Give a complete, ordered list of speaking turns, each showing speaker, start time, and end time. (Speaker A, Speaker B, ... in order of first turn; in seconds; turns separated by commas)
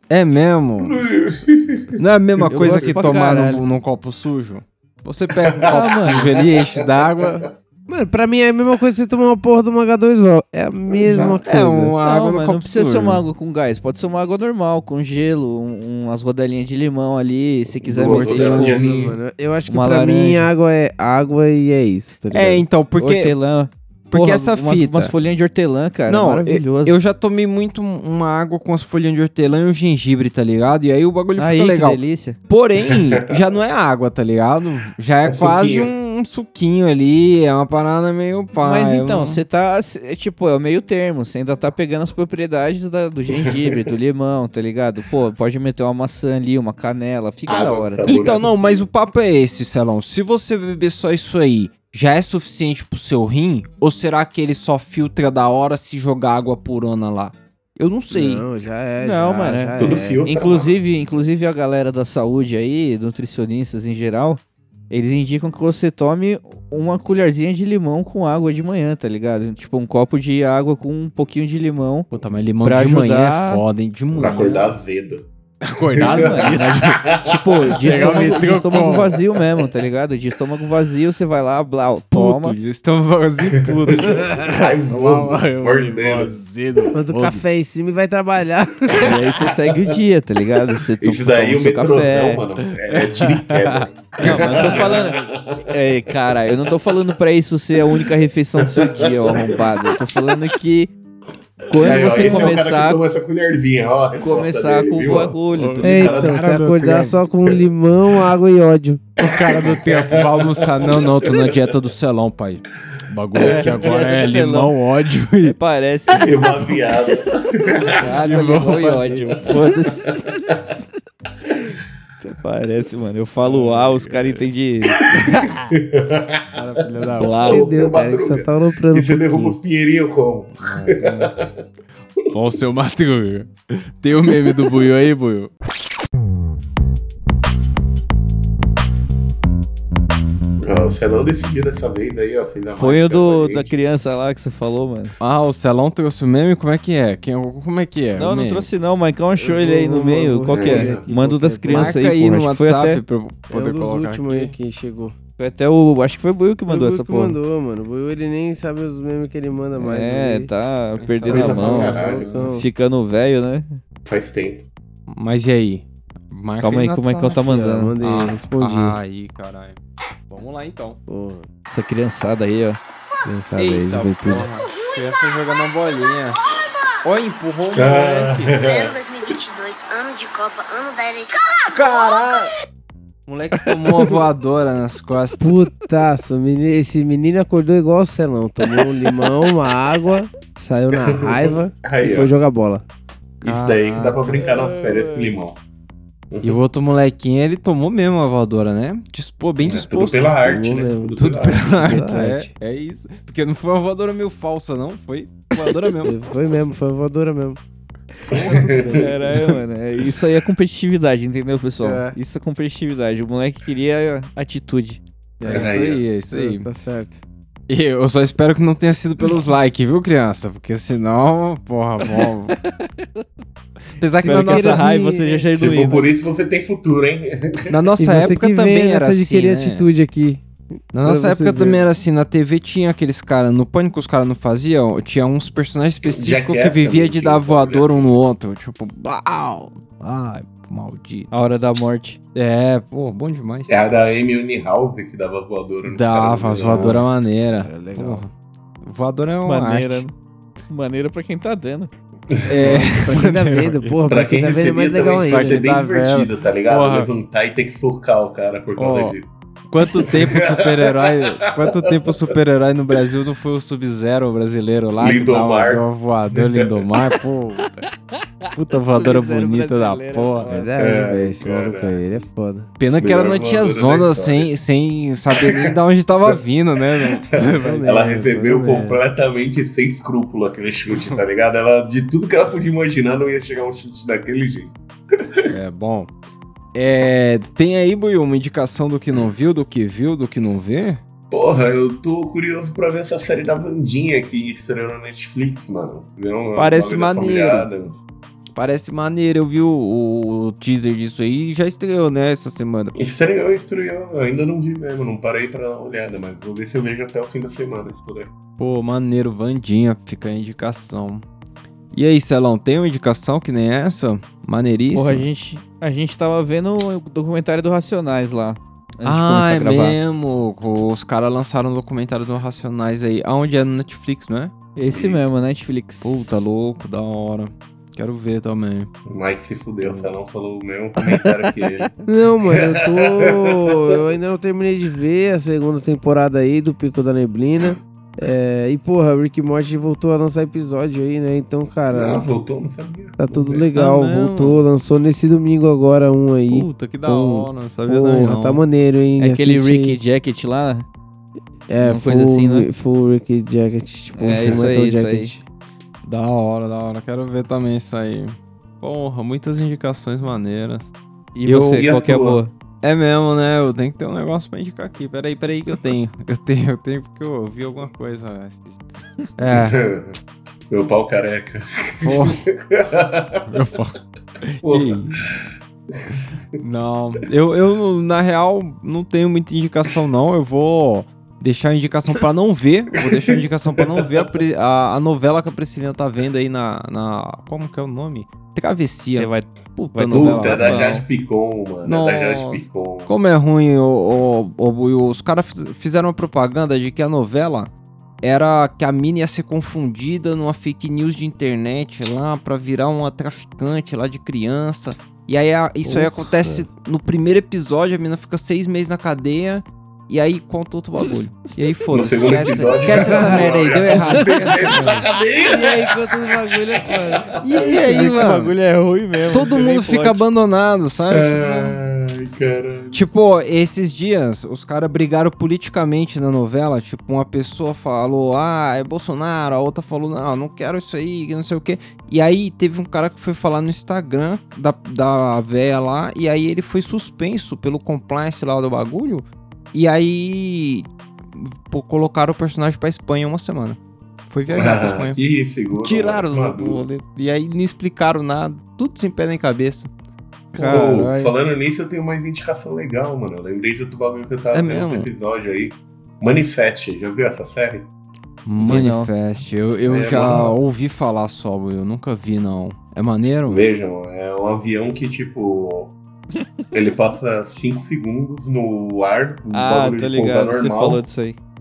Speaker A: 0.1-1.0, Speaker B: 0.8-2.0, Speaker A: 2.0-7.5, Speaker C: 2.5-3.6, Speaker D: 2.6-3.0, Speaker B: 5.5-6.9, Speaker C: 5.7-6.3, Speaker D: 7.9-11.9, Speaker B: 10.9-11.4, Speaker A: 11.4-13.2, Speaker C: 12.0-18.9, Speaker B: 17.8-19.2, Speaker A: 18.0-19.2, Speaker D: 18.3-22.6, Speaker C: 19.7-20.5, Speaker A: 22.3-23.4, Speaker C: 23.0-27.0, Speaker A: 24.1-25.1, Speaker A: 26.1-39.4, Speaker C: 31.4-32.4, Speaker B: 32.9-33.2, Speaker B: 35.3-35.9, Speaker C: 38.6-48.2, Speaker B: 43.3-43.8, Speaker B: 47.5-48.9, Speaker A: 48.1-58.5, Speaker D: 58.1-60.2, Speaker C: 59.0-72.1, Speaker B: 59.8-60.8, Speaker A: 72.1-74.7, Speaker C: 72.6-73.6, Speaker B: 74.1-75.3, Speaker A: 75.6-77.0, Speaker B: 75.8-78.2, Speaker C: 76.0-82.6, Speaker A: 77.7-79.1, Speaker A: 82.1-87.5, Speaker B: 83.9-86.4, Speaker D: 87.0-89.1, Speaker C: 89.0-92.4, Speaker B: 91.0-95.7, Speaker A: 92.9-94.8, Speaker C: 94.2-95.2, Speaker C: 95.7-100.9, Speaker B: 98.7-99.6, Speaker C: 101.7-103.0, Speaker B: 101.8-106.4, Speaker D: 102.2-102.4, Speaker C: 104.2-105.9, Speaker A: 105.5-107.2, Speaker D: 105.8-109.0, Speaker A: 109.2-115.6, Speaker B: 109.2-111.6, Speaker B: 113.3-114.0, Speaker C: 113.4-114.7, Speaker C: 115.4-116.8, Speaker B: 116.1-118.0, Speaker A: 118.0-119.8, Speaker C: 118.0-120.2, Speaker C: 121.6-125.5, Speaker A: 123.4-124.5, Speaker B: 125.0-126.6, Speaker A: 126.5-127.5, Speaker C: 127.2-127.7, Speaker B: 127.2-131.7, Speaker D: 127.5-129.6, Speaker A: 130.6-131.3, Speaker A: 132.3-135.5, Speaker B: 140.6-143.7, Speaker C: 142.8-145.1, Speaker A: 145.2-148.7, Speaker C: 148.2-153.0, Speaker D: 149.3-152.0, Speaker B: 150.5-151.0, Speaker A: 151.7-154.6, Speaker D: 153.5-155.1, Speaker C: 155.4-157.4, Speaker D: 156.7-160.5, Speaker C: 159.8-162.0, Speaker A: 161.0-162.6, Speaker B: 161.3-162.3, Speaker D: 161.4-162.7, Speaker C: 162.5-163.8, Speaker B: 164.1-164.7, Speaker A: 165.1-167.4, Speaker C: 166.6-168.0, Speaker D: 167.3-169.0, Speaker A: 168.0-169.8, Speaker A: 170.3-171.0, Speaker D: 171.1-171.5, Speaker C: 171.7-172.8, Speaker D: 173.2-174.5, Speaker A: 173.6-176.4, Speaker A: 177.0-178.5, Speaker B: 177.7-178.9, Speaker E: 178.6-182.5, Speaker A: 181.7-182.5, Speaker A: 183.3-185.6, Speaker D: 185.4-192.8, Speaker B: 191.3-192.3, Speaker B: 193.4-195.6, Speaker A: 193.4-194.2, Speaker C: 194.3-195.4, Speaker B: 196.3-196.6, Speaker A: 196.4-200.3, Speaker B: 199.6-201.8, Speaker D: 200.4-202.5, Speaker A: 201.2-206.1, Speaker D: 206.0-207.6, Speaker B: 208.3-209.6, Speaker D: 208.3-209.1, Speaker C: 209.0-215.0, Speaker A: 211.8-212.2, Speaker D: 215.4-215.8, Speaker A: 215.4-216.7, Speaker B: 215.5-216.0, Speaker D: 216.3-217.2, Speaker A: 217.7-222.6, Speaker A: 224.0-224.9, Speaker D: 224.2-225.5, Speaker C: 224.2-226.1, Speaker B: 225.6-227.8, Speaker A: 227.7-229.9, Speaker D: 228.0-231.8, Speaker A: 230.9-241.3, Speaker B: 236.0-238.2, Speaker C: 241.3-242.2, Speaker A: 242.3-243.7, Speaker B: 243.7-247.0, Speaker A: 245.8-248.3, Speaker D: 247.6-248.3, Speaker A: 248.8-250.0, Speaker C: 249.4-250.1, Speaker C: 250.7-251.9, Speaker B: 252.3-252.9, Speaker A: 252.5-253.9, Speaker D: 252.6-255.6, Speaker B: 254.1-259.3, Speaker A: 255.2-257.1, Speaker A: 258.8-259.2, Speaker A: 259.7-267.9, Speaker B: 259.8-262.1, Speaker B: 265.0-266.7, Speaker C: 268.4-270.7, Speaker A: 268.5-270.5, Speaker D: 270.5-272.7, Speaker B: 270.8-272.0, Speaker A: 272.8-278.0, Speaker B: 273.0-274.5, Speaker B: 275.3-275.7, Speaker B: 277.0-284.8, Speaker D: 277.4-279.0, Speaker A: 280.9-281.2, Speaker A: 285.5-286.1, Speaker A: 286.8-291.0, Speaker B: 291.3-298.1, Speaker A: 296.6-297.7, Speaker A: 298.6-303.0, Speaker B: 302.9-308.3, Speaker A: 308.6-311.3, Speaker A: 311.9-315.3, Speaker C: 314.9-320.0, Speaker A: 319.1-324.5, Speaker C: 324.8-326.4, Speaker B: 324.9-325.3, Speaker A: 326.0-328.9, Speaker B: 329.1-333.8, Speaker D: 329.8-330.1, Speaker D: 332.1-342.3, Speaker B: 341.9-343.7, Speaker D: 343.2-350.0, Speaker A: 343.7-344.6, Speaker A: 346.5-348.6, Speaker C: 349.2-350.9, Speaker D: 351.7-355.4, Speaker C: 351.8-352.7, Speaker C: 354.1-355.3, Speaker A: 354.4-354.7, Speaker A: 356.0-360.9, Speaker C: 361.4-362.5, Speaker A: 361.4-361.9, Speaker B: 361.8-362.4, Speaker A: 362.8-368.8, Speaker A: 369.4-369.8, Speaker B: 369.5-370.2, Speaker B: 370.7-373.7, Speaker A: 372.0-372.4, Speaker A: 373.5-375.2, Speaker B: 374.6-376.6, Speaker A: 376.6-390.8, Speaker B: 383.0-384.2, Speaker C: 389.1-391.1, Speaker B: 390.1-393.1, Speaker A: 391.8-414.9, Speaker D: 405.9-406.6, Speaker B: 411.9-415.8, Speaker D: 412.8-418.4, Speaker C: 415.5-416.3, Speaker B: 416.9-417.4, Speaker A: 417.4-418.5, Speaker C: 417.7-420.2, Speaker A: 419.3-421.8, Speaker B: 421.1-423.1, Speaker A: 422.9-443.8, Speaker A: 444.3-445.2, Speaker B: 444.5-446.8, Speaker A: 445.7-449.9, Speaker C: 450.5-451.4, Speaker B: 450.6-457.9, Speaker A: 454.5-455.1, Speaker A: 458.4-463.7, Speaker C: 458.6-459.1, Speaker B: 459.9-460.6, Speaker B: 463.5-466.0, Speaker B: 466.7-471.1, Speaker C: 469.5-471.4